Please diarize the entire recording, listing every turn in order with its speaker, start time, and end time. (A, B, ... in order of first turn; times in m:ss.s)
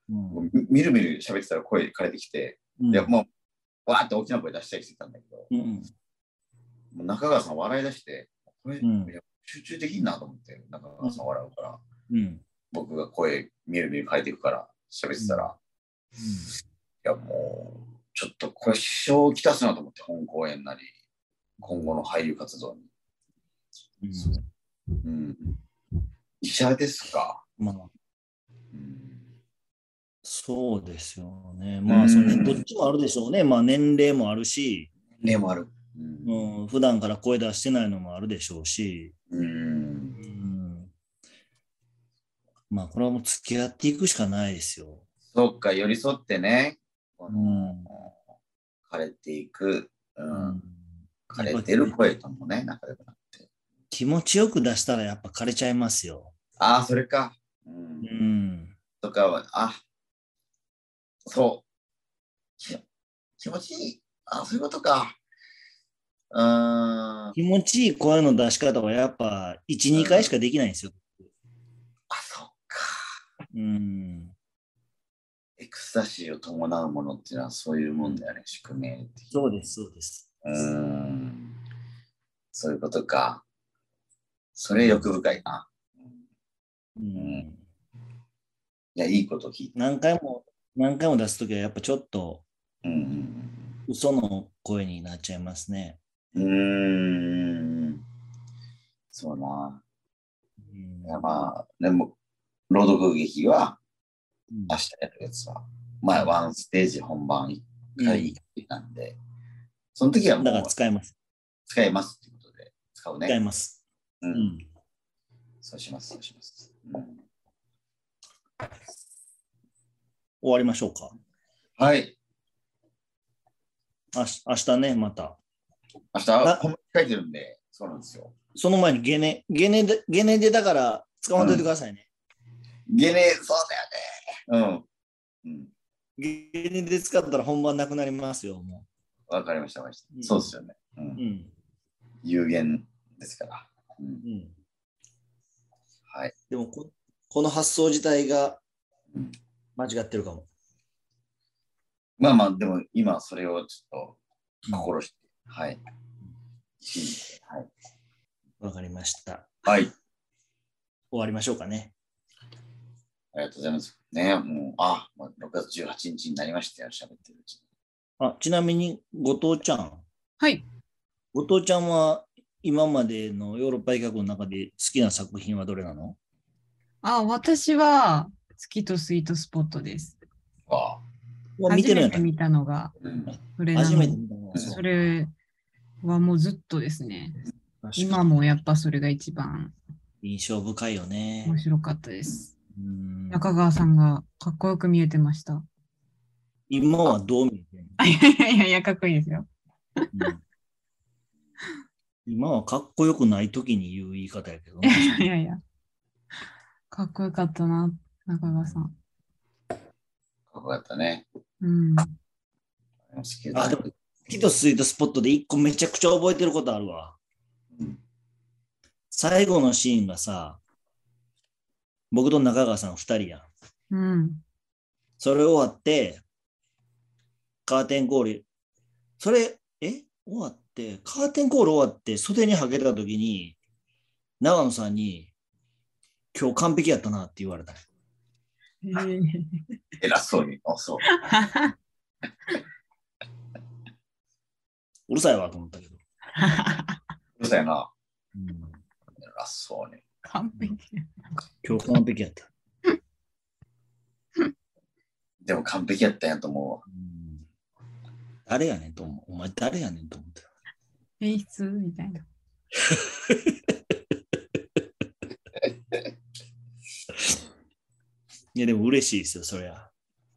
0:00.1-0:00.4 A
0:00.3-0:03.3 B
0:02.8-0:03.1 A
0:03.9-0:05.5 B
0:05.5-0:05.9 A
0:06.9-0:11.8 B
0:08.8-0:09.1 A
0:12.1-0:12.4 A
0:12.7-0:15.6 B
0:15.2-0:15.5 A
0:16.2-0:16.5 A
0:17.0-0:20.9 B
0:21.6-0:21.9 A
0:21.6-0:22.9 B
0:24.0-0:24.4 A
0:25.0-0:25.6 B
0:26.4-0:27.4 B
0:27.6-0:27.9 A
0:28.7-0:29.2 B
0:30.2-0:34.9 A
0:31.9-0:32.6 B
0:35.2-0:36.5 B
0:36.2-0:39.1 A
0:39.3-0:40.2 B
0:40.2-0:40.9 A
0:42.7-0:45.0 A
0:45.3-0:48.1 B
0:47.3-0:47.9 A
0:48.9-0:50.6 B
0:50.3-0:52.0 A
0:51.3-0:53.5 B
0:53.9-0:56.3 A
0:56.6-0:58.2 B
0:58.0-0:58.7 A
0:59.0-0:59.8 B
1:01.3-1:01.6 B
1:03.4-1:05.2 B
1:06.3-1:07.4 B
1:07.3-1:11.3 A
1:09.9-1:10.3 B
1:12.1-1:13.0 B
1:13.5-1:14.4 A
1:15.6-1:19.6 B
1:19.3-1:20.3 A
1:20.4-1:21.5 B
1:22.5-1:23.4 B
1:24.6-1:26.2 B
1:24.8-1:25.1 A
1:27.0-1:27.6 A
1:27.2-1:27.4 B
1:29.0-1:29.8 B
1:29.8-1:32.4 A
1:32.8-1:33.8 B
1:33.9-1:36.0 A
1:36.4-1:38.0 B
1:39.1-1:39.8 B
1:40.6-1:41.2 A
1:41.0-1:42.2 B
1:42.7-1:43.8 B
1:44.5-1:44.8 A
1:44.7-1:49.2 B
1:48.0-1:48.3 A
1:50.0-1:50.7 B
1:50.4-1:51.1 A
1:51.7-1:53.4 B
1:53.3-1:53.8 A
1:54.2-1:54.5 B
1:54.3-1:54.6 A
1:55.6-1:57.2 B
2:00.4-2:01.1 A
2:01.8-2:02.2 B
2:04.1-2:05.4 A
2:06.1-2:08.4 B
2:08.6-2:12.0 A
2:11.4-2:11.7 B
2:12.9-2:14.9 B
2:15.4-2:15.7 B
2:16.2-2:18.9 A
2:19.3-2:21.2 B
2:20.1-2:20.5 A
2:21.2-2:21.5 A
2:22.2-2:24.2 B
2:24.2-2:24.6 A
2:26.5-2:28.6 A
2:29.8-2:30.5 A
2:32.2-2:35.8 B
2:36.8-2:37.7 B
2:38.6-2:39.5 A
2:39.6-2:39.9 B
2:41.1-2:41.9 A
2:43.3-2:47.6 B
2:48.2-2:50.0 A
2:50.4-2:50.6 C
2:51.3-2:56.2 A
2:57.0-3:00.2 C
3:00.7-3:01.0 B
3:01.6-3:02.3 A
3:01.7-3:02.9 C
3:03.0-3:03.4 B
3:03.3-3:04.8 A
3:03.6-3:05.3 C
3:06.0-3:07.4 C
3:07.8-3:08.4 A
3:08.0-3:09.8 C
3:10.2-3:11.6 A
3:11.4-3:12.5 C
3:12.7-3:13.5 A
3:13.3-3:15.6 C
3:16.7-3:18.0 A
3:18.0-3:19.5 C
3:20.1-3:20.4 A
3:22.3-3:25.2 A
3:24.8-3:25.6 C
3:26.9-3:29.0 C
3:30.5-3:31.2 B
3:31.6-3:32.2 C
3:33.1-3:33.9 B
3:33.5-3:37.2 A
3:37.8-3:38.0 B
3:39.1-3:40.6 A
3:42.1-3:43.5 A
3:43.9-3:44.4 C
3:45.2-3:46.2 A
3:47.6-3:48.5 A
3:49.2-3:53.6 A
3:54.4-3:55.3 A
3:56.3-3:57.8 A
3:58.8-3:59.6 C
4:00.0-4:01.1 B
4:01.1-4:01.7 C
4:05.1-4:06.0 A
4:06.4-4:07.0 C
4:07.4-4:07.9 B
4:08.4-4:08.8 A
4:09.2-4:10.0 B
4:10.2-4:11.9 C
4:11.6-4:12.5 A
4:15.4-4:16.8 B
4:16.9-4:17.5 A
4:18.5-4:20.5 A
4:21.2-4:22.2 C
4:22.9-4:23.6 A
4:25.6-4:26.1 B
4:28.6-4:29.9 A